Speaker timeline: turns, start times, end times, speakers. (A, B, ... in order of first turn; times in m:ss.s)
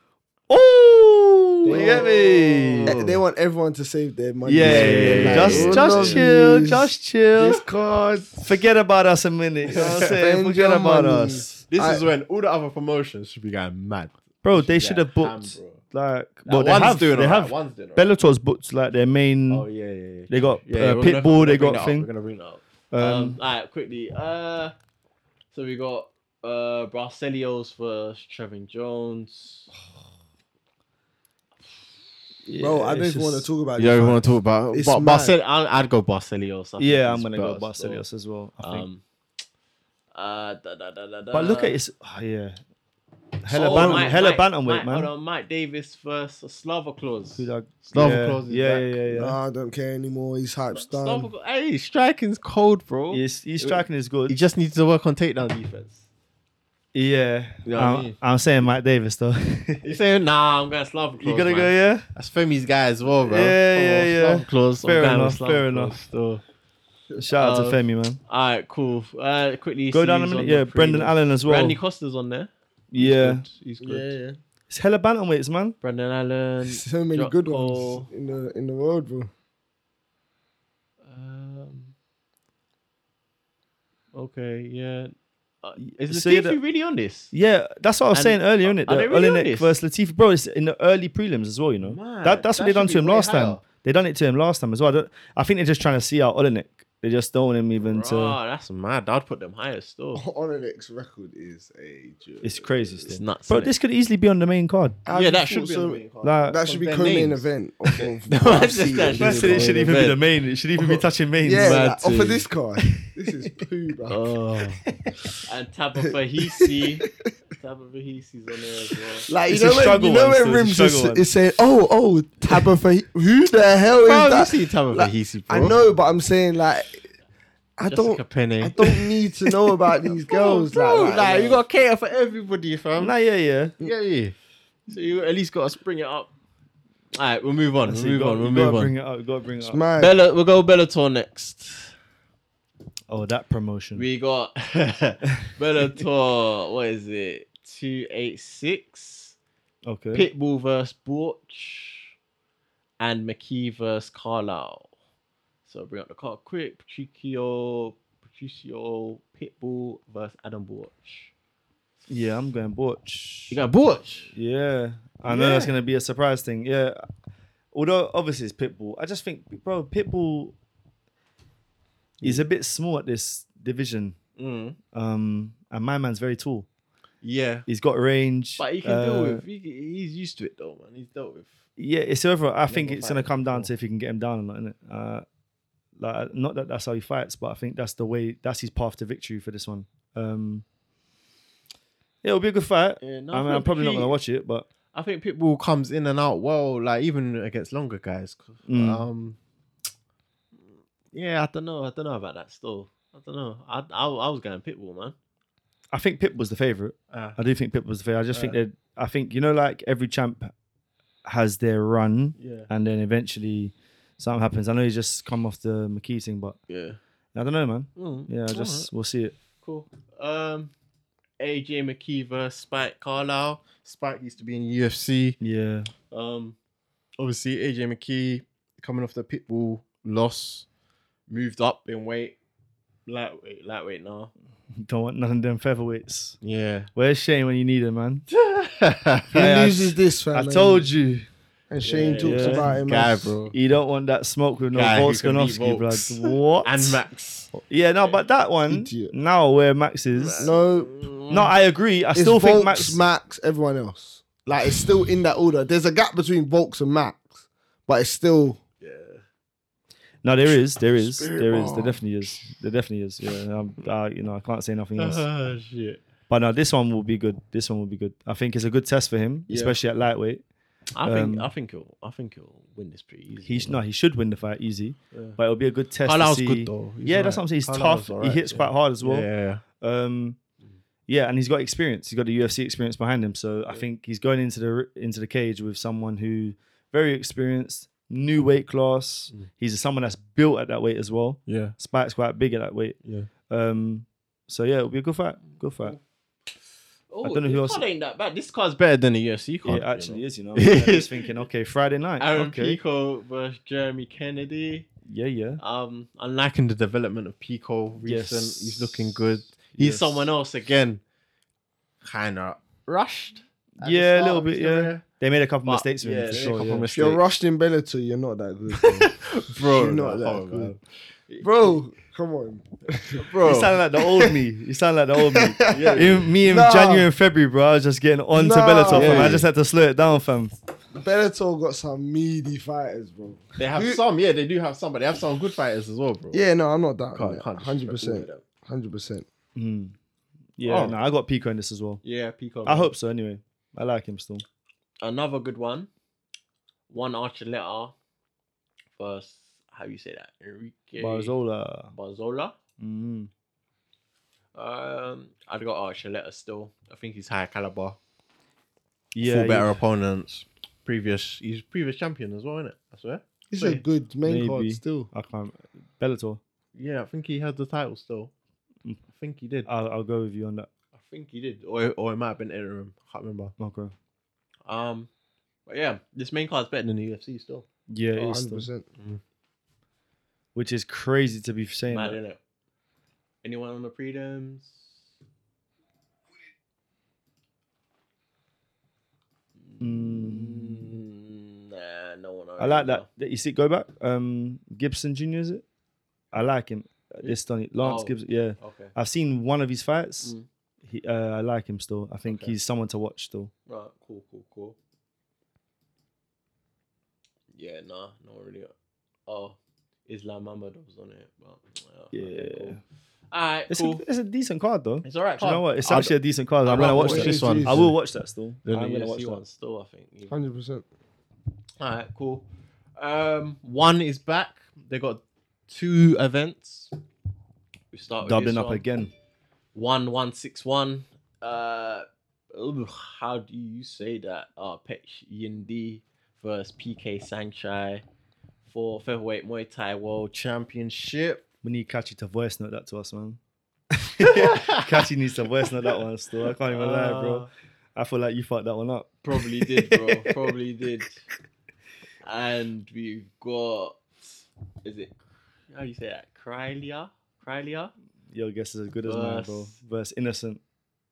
0:00.5-0:03.0 A
0:01.6-0:03.2 B
0:01.6-0:08.5 C
0:04.4-0:07.6 A
0:04.6-0:06.4 B
0:08.4-0:11.5 A
0:09.7-0:10.2 B
0:09.7-0:12.0 C
0:11.7-0:15.8 B
0:14.4-0:19.7 A
0:16.5-0:18.1 B
0:19.5-0:24.7 B
0:20.3-0:22.1 A
0:22.9-0:23.4 A
0:25.5-0:29.7 B
0:32.5-0:33.5 A
0:32.5-0:35.4 C
0:33.8-0:38.0 B
0:36.8-0:38.9 A
0:38.6-0:39.0 B
0:40.1-0:41.8 B
0:41.3-0:42.6 A
0:43.4-0:45.1 A
0:43.5-0:49.1 B
0:43.6-0:44.2 C
0:47.4-0:49.4 A
0:49.2-0:51.3 C
0:50.7-0:56.0 B
0:53.1-0:54.4 A
0:56.9-0:59.9 A
0:57.7-0:58.2 B
0:59.8-1:06.4 B
1:01.2-1:02.1 A
1:03.3-1:06.0 A
1:07.2-1:08.2 A
1:07.3-1:14.2 B
1:09.9-1:11.8 A
1:12.9-1:13.4 A
1:13.8-1:14.4 C
1:14.7-1:15.8 A
1:15.8-1:18.1 B
1:16.6-1:19.3 C
1:21.0-1:21.9 B
1:24.1-1:27.3 B
1:25.8-1:26.6 A
1:27.3-1:38.4 A
1:28.1-1:29.7 B
1:31.8-1:33.6 B
1:37.8-1:40.2 B
1:40.2-1:42.9 C
1:42.4-1:45.0 A
1:43.1-1:43.7 B
1:45.1-1:49.9 C
1:45.1-1:47.5 B
1:46.2-1:46.6 A
1:48.3-1:50.2 B
1:49.1-1:51.9 A
1:50.8-1:54.3 C
1:51.5-1:52.4 B
1:52.8-1:53.1 A
1:54.1-1:54.8 B
1:54.9-1:55.2 A
1:55.5-1:59.3 B
1:56.5-1:57.1 C
1:59.3-2:07.1 C
1:59.5-2:01.3 A
2:04.0-2:05.8 B
2:07.8-2:11.6 C
2:07.9-2:09.1 B
2:10.3-2:13.2 B
2:13.0-2:13.8 A
2:13.8-2:14.4 B
2:14.9-2:16.3 B
2:17.1-2:18.9 B
2:17.9-2:19.8 A
2:19.6-2:20.1 C
2:20.0-2:21.9 B
2:23.1-2:24.1 A
2:24.0-2:29.4 B
2:29.9-2:30.3 A
2:30.1-2:32.2 B
2:33.0-2:34.9 B
2:35.7-2:41.3 B
2:42.1-2:43.6 A
2:43.5-2:44.3 B
2:44.3-2:47.0 A
2:45.2-2:45.8 B
2:47.7-2:50.5 A
2:52.2-2:54.2 A
2:54.4-2:54.8 B
2:54.9-2:56.7 A
2:57.2-2:57.7 B
2:57.7-2:59.4 A
2:58.6-3:01.6 B
3:01.8-3:05.2 A
3:02.7-3:03.7 B
3:06.0-3:10.6 A
3:12.2-3:14.7 A
3:13.0-3:14.2 B
3:14.9-3:19.4 B
3:18.7-3:19.1 A
3:21.1-3:25.2 B
3:25.9-3:30.5 A
3:27.1-3:27.4 B
3:28.3-3:28.6 B
3:31.3-3:36.6 A
3:32.4-3:32.7 B
3:36.7-3:37.0 B
3:37.3-3:39.4 A
3:38.0-3:38.9 B
3:39.6-3:40.7 B
3:41.4-3:45.4 B
3:45.4-3:45.9 A
3:46.1-3:46.6 B
3:47.2-3:50.7 B
3:51.3-3:52.4 B
3:53.1-3:54.3 B
3:54.8-3:56.4 A
3:56.4-3:56.9 B
3:57.0-3:58.3 A
3:58.3-3:59.6 B
3:59.3-4:00.9 C
3:59.4-4:01.3 A
4:01.7-4:03.4 C
4:01.8-4:03.6 B
4:02.1-4:02.7 A
4:03.5-4:07.0 A
4:04.7-4:08.2 B
4:07.5-4:10.5 A
4:08.7-4:09.1 C
4:10.1-4:11.5 B
4:10.4-4:10.9 C
4:11.3-4:13.0 A
4:12.2-4:18.6 C
4:18.8-4:19.2 B
4:20.2-4:25.3 A
4:21.0-4:22.0 B
4:25.0-4:26.0 B
4:26.3-4:30.4 A
4:29.5-4:29.8 B
4:30.9-4:33.8 B
4:31.0-4:31.5 A
4:33.4-4:39.3 A
4:35.1-4:35.4 B
4:36.0-4:39.6 B
4:39.8-4:40.4 A
4:41.1-4:56.0 A
4:51.5-4:51.8 B
4:53.0-4:53.3 B
4:57.1-5:01.4 B
4:57.2-4:57.8 A
4:59.6-5:02.8 A
5:02.2-5:04.9 B
5:05.1-5:05.6 A
5:05.6-5:11.0 B
5:08.0-5:10.3 A
5:12.0-5:15.0 B
5:13.8-5:16.9 A
5:15.7-5:17.2 B
5:16.9-5:20.8 C
5:18.8-5:21.8 B
5:21.4-5:23.3 C
5:23.2-5:23.8 B
5:23.4-5:30.5 A
5:25.3-5:27.1 C
5:25.7-5:26.3 B
5:28.3-5:29.4 C
5:28.9-5:29.5 B
5:30.9-5:34.0 C
5:33.6-5:36.4 B
5:36.3-5:39.3 C
5:37.2-5:38.4 B
5:39.6-5:39.9 A
5:40.6-5:42.0 A
5:40.6-5:41.0 B
5:42.0-5:42.9 B
5:42.6-5:44.4 A
5:45.0-5:45.9 B
5:46.9-5:48.0 B
5:49.0-5:51.3 B
5:51.0-5:51.9 A
5:51.9-5:52.6 B
5:52.8-5:53.3 A
5:54.5-5:58.0 B
5:59.2-5:59.8 A
5:59.2-6:03.8 B
6:03.5-6:05.1 C
6:04.2-6:06.4 A
6:06.8-6:08.3 B
6:09.1-6:09.7 B
6:09.6-6:10.7 A
6:10.9-6:13.6 B
6:13.6-6:13.9 A
6:14.7-6:15.1 B
6:15.7-6:17.7 B
6:17.9-6:18.7 A
6:18.2-6:18.9 C
6:20.5-6:22.2 A
6:21.9-6:22.4 B
6:23.4-6:25.0 B
6:29.6-6:33.1 B
6:29.8-6:31.0 A
6:32.6-6:35.6 A
6:36.3-6:40.3 A
6:37.2-6:38.9 B
6:40.9-6:43.5 A
6:42.2-6:42.5 B
6:43.7-6:44.8 B
6:47.6-6:48.7 B
6:49.3-6:52.8 B
6:52.1-6:52.8 A
6:53.3-6:54.0 B
6:53.7-6:59.4 A
6:55.0-6:58.0 B
6:56.7-6:57.9 C
6:58.6-7:00.4 B
7:00.3-7:00.8 C
7:01.8-7:07.0 B
7:07.9-7:08.8 B
7:08.2-7:09.1 A
7:09.7-7:18.0 B
7:18.6-7:21.4 B
7:21.6-7:23.4 A
7:23.9-7:30.5 A
7:24.2-7:25.1 B
7:25.7-7:27.5 B
7:29.2-7:31.2 B
7:32.2-7:35.2 B
7:35.7-7:37.9 B
7:38.3-7:40.6 A
7:39.0-7:39.8 B